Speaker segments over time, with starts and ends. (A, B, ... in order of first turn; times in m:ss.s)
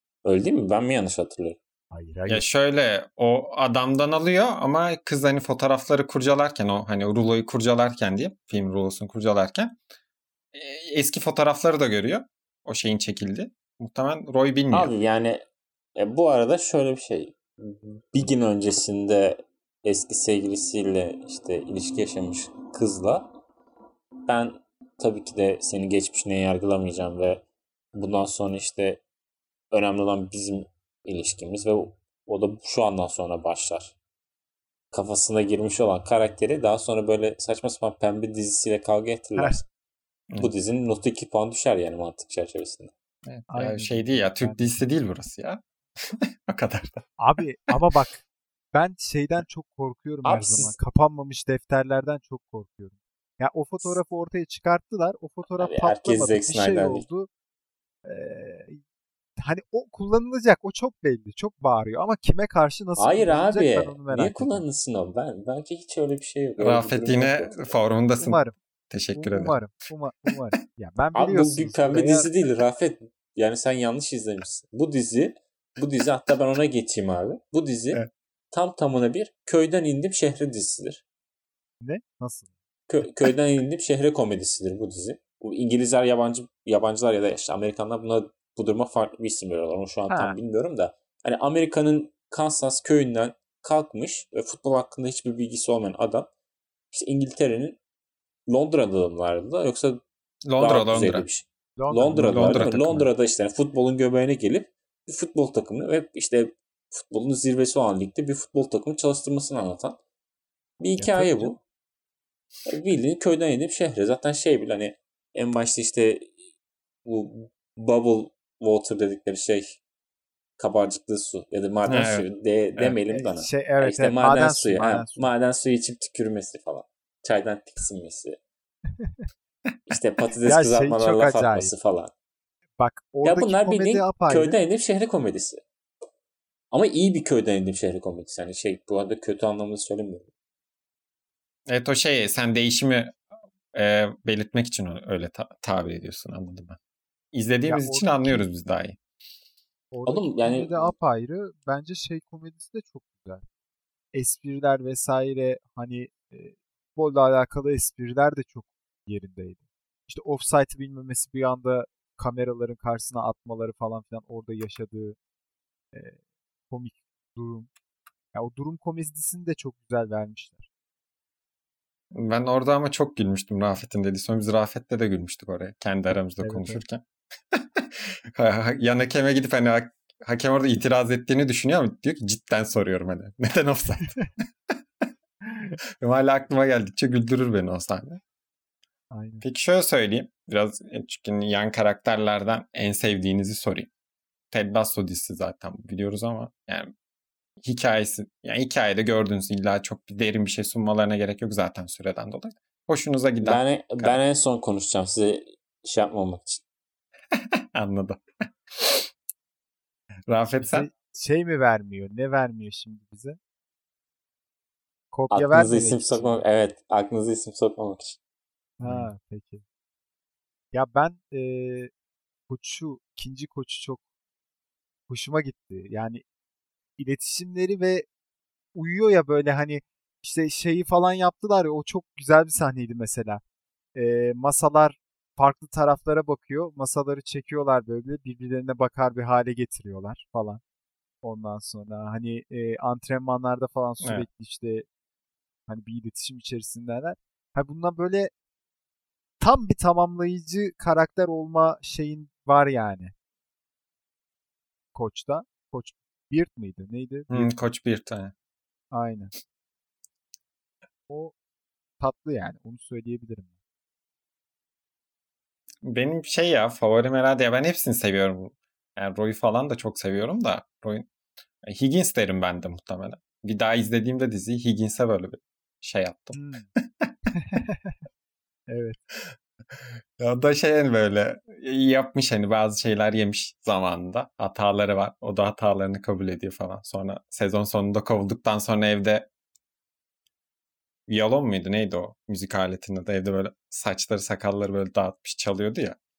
0:00.2-0:01.6 A
0:01.9-0:02.5 B
0:02.3-0:09.8 C
0:10.5-0:14.9 C
0:14.7-0:15.4 A
0:16.0-0:23.3 A
0:24.3-0:27.4 A
0:28.0-0:29.0 A
0:29.7-0:34.0 A
0:34.9-0:39.6 A
0:40.4-0:42.9 A
0:43.2-0:47.1 C
0:43.5-0:44.8 B
0:47.2-0:48.2 B
0:48.7-0:57.3 B
0:50.2-0:50.8 A
0:55.6-0:57.0 A
0:58.0-0:58.8 B
0:59.4-1:04.6 B
1:03.0-1:07.7 A
1:06.6-1:09.6 C
1:08.2-1:08.5 B
1:09.1-1:12.3 B
1:11.2-1:18.0 A
1:18.5-1:21.0 A
1:21.8-1:22.5 B
1:22.9-1:36.3 A
1:30.1-1:30.4 B
1:36.9-1:37.8 A
1:38.5-1:40.0 A
1:40.4-1:41.2 C
1:40.6-1:50.0 A
1:41.8-1:42.7 B
1:42.1-1:43.1 C
1:50.8-1:51.6 A
1:51.0-1:51.6 B
1:52.7-1:56.3 A
1:57.0-1:59.8 A
2:00.6-2:08.4 A
2:01.9-2:02.2 C
2:03.1-2:05.3 B
2:09.9-2:12.1 A
2:10.5-2:11.7 B
2:12.8-2:14.6 B
2:13.2-2:15.6 A
2:16.7-2:20.3 A
2:21.7-2:23.2 C
2:23.7-2:26.8 C
2:27.3-2:29.0 C
2:27.7-2:28.4 B
2:29.9-2:33.4 B
2:30.1-2:30.9 A
2:34.1-2:45.2 B
2:45.9-2:47.7 B
2:48.3-2:50.7 B
2:52.1-3:04.2 C
2:56.4-2:56.8 B
3:06.0-3:08.2 C
3:09.1-3:09.4 B
3:09.4-3:13.9 C
3:14.5-3:16.9 C
3:17.6-3:24.2 C
3:23.4-3:26.6 A
3:27.4-3:29.1 C
3:30.3-3:30.9 C
3:30.6-3:33.4 B
3:35.1-3:36.4 B
3:35.3-3:38.2 A
3:38.8-3:39.6 B
3:38.8-3:39.1 C
3:40.7-3:41.9 B
3:42.5-3:44.0 B
3:45.1-3:46.2 B
3:47.0-3:48.1 B
3:48.8-3:53.4 B
3:54.0-4:00.6 B
4:01.2-4:04.9 B
4:04.0-4:04.2 C
4:05.7-4:08.3 B
4:09.4-4:13.1 B
4:14.9-4:17.5 B
4:17.3-4:18.3 C
4:18.9-4:19.3 B
4:21.1-4:21.4 B
4:22.0-4:23.6 B
4:25.8-4:31.1 C
4:31.6-4:37.1 C
4:36.3-4:36.7 B
4:37.3-4:38.0 B
4:38.7-4:39.0 B
4:39.2-4:49.3 C
4:51.1-4:56.0 C